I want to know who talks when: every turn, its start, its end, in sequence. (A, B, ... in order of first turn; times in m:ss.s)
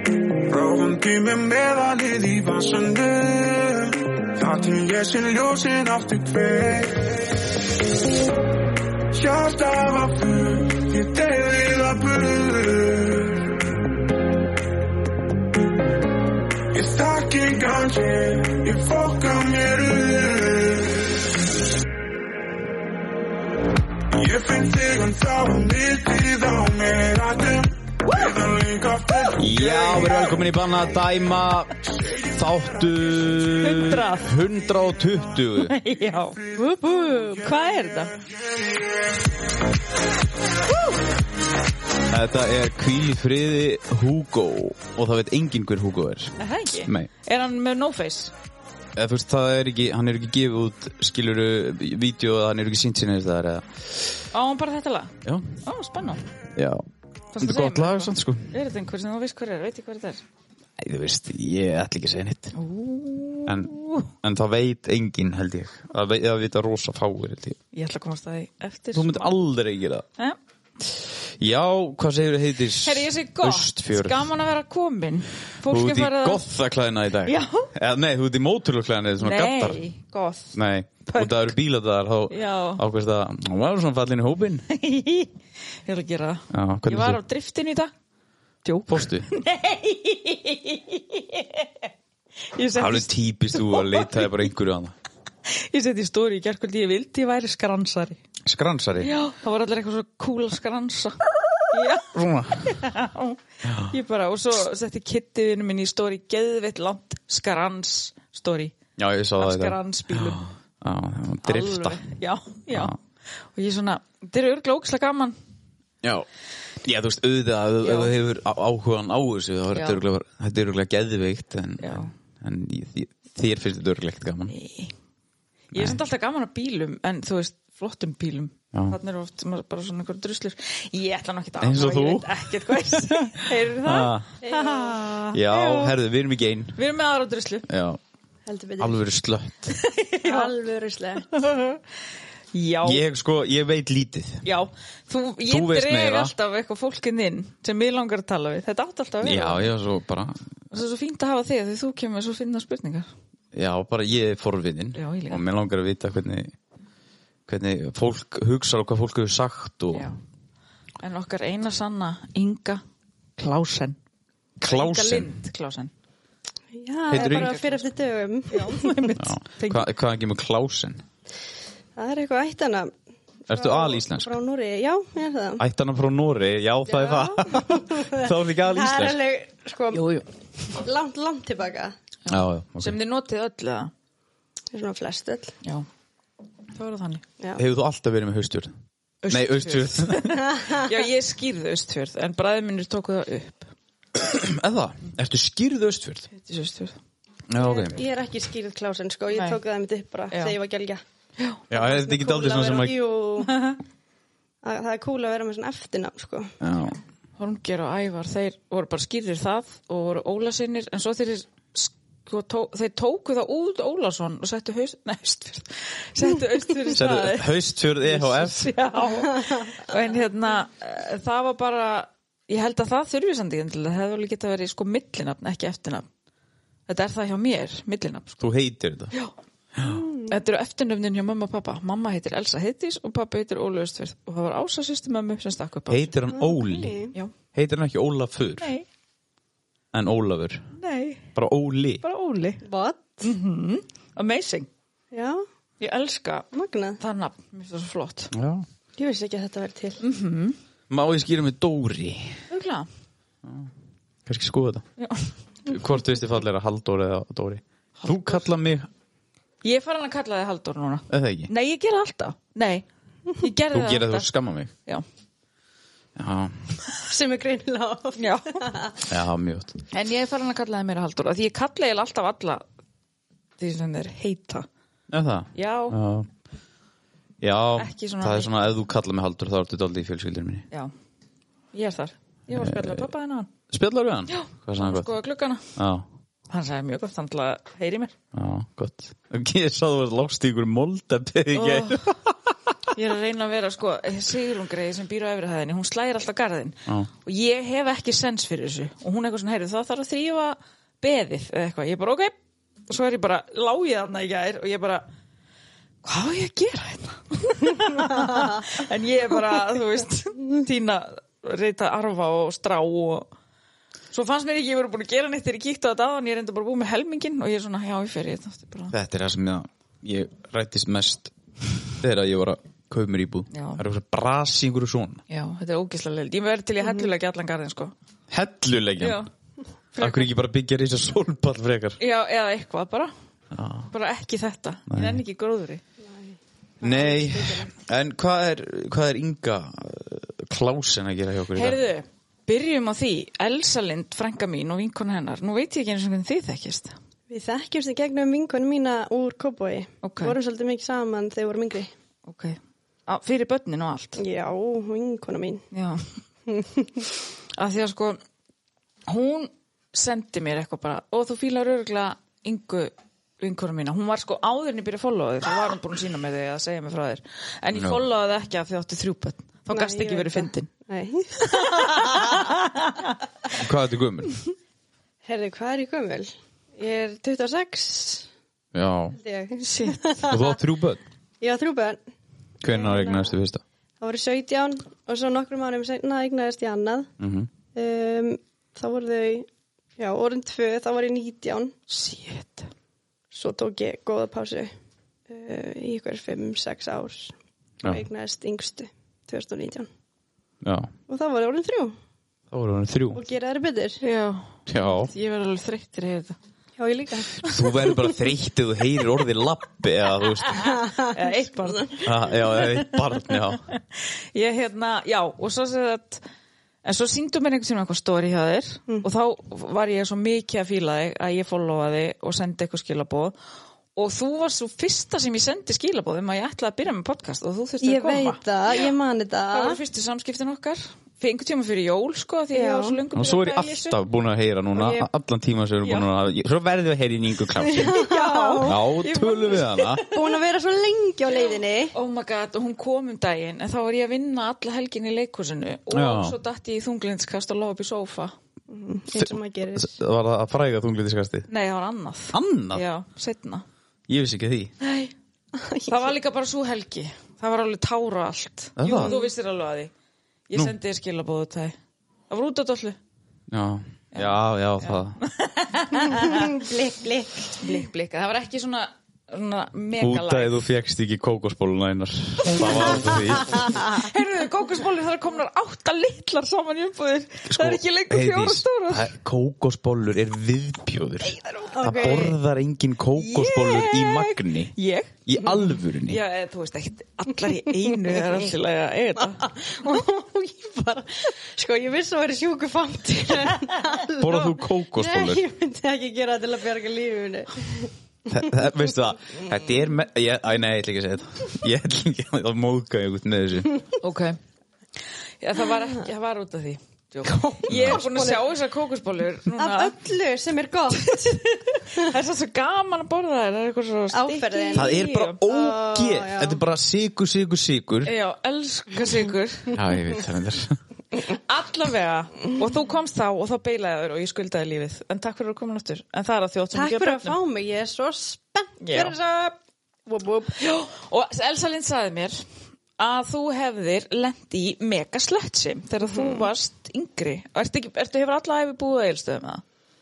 0:00.4-0:07.6 A
0:09.1-0:13.6 A
0:16.7-0:21.2 A
0:24.1-0:30.2 A
0:29.4-0:31.8 B
0:32.3-0:35.8 B
0:33.6-0:34.4 C
0:35.6-0:36.4 C
0:36.4-0:38.7 A
0:36.6-0:37.5 D
0:37.4-0:38.2 C
0:42.1-0:47.1 B
0:46.4-0:48.3 C
0:49.0-0:53.9 B
0:54.3-0:56.2 C
0:55.2-0:55.5 B
0:56.6-0:56.8 B
0:57.3-1:00.2 C
0:57.4-0:58.6 B
1:00.8-1:02.6 B
1:02.5-1:04.1 C
1:03.5-1:07.6 B
1:07.7-1:09.4 C
1:08.9-1:10.0 B
1:11.4-1:14.3 B
1:12.8-1:16.4 C
1:15.6-1:19.8 B
1:17.2-1:17.7 C
1:19.2-1:21.5 C
1:20.6-1:24.6 B
1:22.3-1:22.8 C
1:24.7-1:27.9 C
1:26.5-1:27.2 B
1:28.6-1:31.9 C
1:28.9-1:29.3 B
1:32.5-1:34.3 C
1:32.8-1:34.9 B
1:35.5-1:38.2 C
1:38.4-1:39.1 B
1:39.0-1:48.7 C
1:42.1-1:42.8 B
1:43.6-1:43.9 B
1:49.0-1:52.0 B
1:49.4-1:50.5 C
1:51.4-1:55.4 C
1:56.8-2:04.5 B
1:57.8-1:58.1 C
1:59.7-2:00.0 C
2:01.8-2:02.1 C
2:04.5-2:05.0 C
2:05.7-2:15.9 C
2:05.7-2:06.0 B
2:08.7-2:09.0 B
2:11.6-2:13.3 B
2:13.8-2:14.3 B
2:14.4-2:15.0 D
2:15.3-2:16.8 B
2:16.8-2:17.7 C
2:17.7-2:18.0 B
2:18.5-2:19.0 D
2:18.8-2:19.8 B
2:19.7-2:20.5 C
2:20.2-2:21.3 D
2:21.3-2:21.8 C
2:22.5-2:23.0 C
2:22.8-2:24.4 B
2:24.4-2:29.7 C
2:25.5-2:26.3 B
2:29.2-2:30.4 B
2:30.7-2:33.1 C
2:33.5-2:36.5 B
2:35.0-2:35.4 C
2:37.5-2:40.1 B
2:39.9-2:40.2 C
2:41.0-2:42.8 C
2:43.4-2:44.0 C
2:44.6-2:45.9 C
2:44.6-2:45.4 B
2:46.7-2:49.1 D
2:47.1-2:47.8 C
2:47.1-2:47.5 B
2:48.5-2:49.9 C
2:49.2-2:51.0 B
2:52.0-2:52.9 D
2:53.5-2:54.3 B
2:53.5-2:55.6 D
2:55.6-2:59.2 B
2:56.9-3:00.2 D
2:59.9-3:00.2 C
3:00.8-3:01.9 D
3:02.3-3:03.9 C
3:02.3-3:03.0 B
3:04.7-3:05.6 D
3:06.8-3:07.2 C
3:07.6-3:08.7 B
3:09.2-3:13.7 C
3:09.3-3:10.4 B
3:14.2-3:16.3 B
3:16.3-3:17.0 C
3:17.5-3:18.0 B
3:17.6-3:21.0 D
3:19.3-3:19.6 C
3:21.7-3:23.0 B
3:21.7-3:23.6 D
3:23.4-3:23.8 C
3:24.6-3:26.5 D
3:26.6-3:27.0 B
3:27.4-3:46.1 C
3:36.9-3:38.7 B
3:46.9-3:48.4 C
3:48.4-3:49.1 B
3:49.8-3:50.4 D
3:50.3-3:56.2 C
3:55.9-3:58.8 B
3:56.3-3:57.1 D
3:58.6-3:58.9 C
3:59.9-4:00.7 B
4:00.8-4:01.3 C
4:01.4-4:02.0 B
4:02.0-4:02.6 C
4:02.6-4:03.2 D
4:03.2-4:04.7 C
4:05.1-4:05.4 D
4:05.8-4:06.5 C
4:06.5-4:07.0 D
4:07.0-4:08.3 C
4:08.3-4:08.7 B
4:09.0-4:10.0 D
4:10.0-4:10.6 C
4:10.9-4:12.4 B
4:12.5-4:12.9 C
4:14.3-4:14.8 B
4:15.0-4:15.4 C
4:15.6-4:18.9 B
4:18.0-4:18.4 C
4:19.6-4:24.3 C
4:21.1-4:21.5 B
4:23.7-4:24.7 B
4:26.2-4:26.7 B
4:27.0-4:29.0 D
4:28.2-4:28.7 C
4:29.1-4:29.8 B
4:29.9-4:32.6 C
4:33.6-4:34.7 C
4:35.1-4:36.3 B
4:35.6-4:36.0 C
4:37.4-4:40.6 B
4:37.8-4:38.5 C
4:41.7-4:43.5 C
4:42.6-4:43.0 B
4:43.7-4:45.1 B
4:44.3-4:45.8 C
4:45.8-4:46.0 B
4:46.5-4:48.1 C
4:48.3-4:52.5 B
4:51.5-4:52.1 C
4:52.9-5:02.3 C
5:02.9-5:05.1 C
5:06.0-5:13.3 C
5:14.1-5:18.9 C
5:18.9-5:21.3 B
5:22.0-5:25.2 B
5:23.5-5:23.8 C
5:25.3-5:27.9 C
5:26.8-5:27.1 D
5:28.3-5:29.2 B
5:29.0-5:29.3 C
5:29.9-5:30.3 C
5:30.0-5:32.0 B
5:32.0-5:33.1 C
5:33.5-5:33.9 B
5:33.9-5:35.8 C
5:34.9-5:35.2 B
5:36.0-5:37.7 D
5:36.8-5:41.8 B
5:41.5-5:47.0 C
5:47.3-5:51.9 D
5:50.0-5:50.4 C
5:52.2-5:54.2 C
5:54.2-5:55.7 D
5:55.7-5:56.1 C
5:56.5-5:57.0 D
5:57.6-5:58.2 C
5:59.1-6:10.7 C
6:07.7-6:08.0 B
6:09.7-6:12.5 D
6:11.4-6:13.2 C
6:13.6-6:14.4 B
6:15.2-6:18.3 D
6:18.7-6:19.2 B
6:19.2-6:20.5 D
6:19.6-6:20.2 C
6:20.2-6:21.0 B
6:21.4-6:22.0 D
6:22.6-6:23.6 B
6:22.7-6:23.4 D
6:24.0-6:27.1 D
6:27.2-6:27.5 B
6:27.8-6:29.5 D
6:30.0-6:31.7 D
6:31.9-6:32.7 C
6:33.3-6:34.7 D
6:35.3-6:39.9 D
6:40.6-6:40.9 B
6:41.1-6:42.0 D
6:42.5-6:43.2 B
6:43.1-6:44.0 D
6:44.0-6:46.4 C
6:44.7-6:45.1 B
6:46.8-6:47.4 D
6:47.4-6:50.7 B
6:50.4-6:56.2 C
6:50.6-6:51.4 D
6:52.0-6:53.6 B
6:56.8-7:03.4 C
7:04.0-7:08.9 C
7:07.8-7:09.8 D
7:09.5-7:14.0 C
7:12.5-7:13.0 D
7:13.2-7:18.0 B
7:14.8-7:15.1 D
7:17.6-7:18.8 D
7:17.8-7:20.3 C
7:18.6-7:20.0 B
7:20.1-7:21.9 D
7:21.5-7:28.3 C
7:25.9-7:26.4 B
7:28.7-7:29.9 D
7:29.2-7:31.5 B
7:31.5-7:33.6 C
7:32.3-7:32.8 B
7:34.1-7:34.7 B
7:34.8-7:35.1 C
7:35.6-7:36.1 D
7:35.9-7:39.9 C
7:38.8-7:39.2 B
7:38.9-7:39.3 D
7:40.5-7:41.8 C
7:42.3-7:43.0 C
7:43.5-7:45.2 B
7:44.1-7:46.6 C
7:46.0-7:47.8 D
7:47.6-7:50.6 C
7:50.0-7:53.8 B
7:52.5-7:59.2 C
7:57.5-8:04.7 B
8:01.4-8:02.3 C
8:01.7-8:02.4 D
8:03.2-8:09.5 C
8:05.3-8:06.2 B
8:09.4-8:18.3 D
8:14.2-8:15.4 B
8:18.3-8:23.7 B
8:24.0-8:24.4 C
8:25.4-8:29.9 C
8:27.2-8:28.5 D
8:27.7-8:28.1 B
8:29.6-8:31.5 D
8:31.0-8:35.4 C
8:34.1-8:36.6 D
8:34.8-8:38.1 B
8:38.0-8:39.8 C
8:39.7-8:40.8 B
8:41.2-8:47.4 C
8:46.7-8:50.6 D
8:48.8-8:49.2 C
8:50.6-8:52.4 C
8:53.0-8:59.6 C
8:56.0-8:56.5 D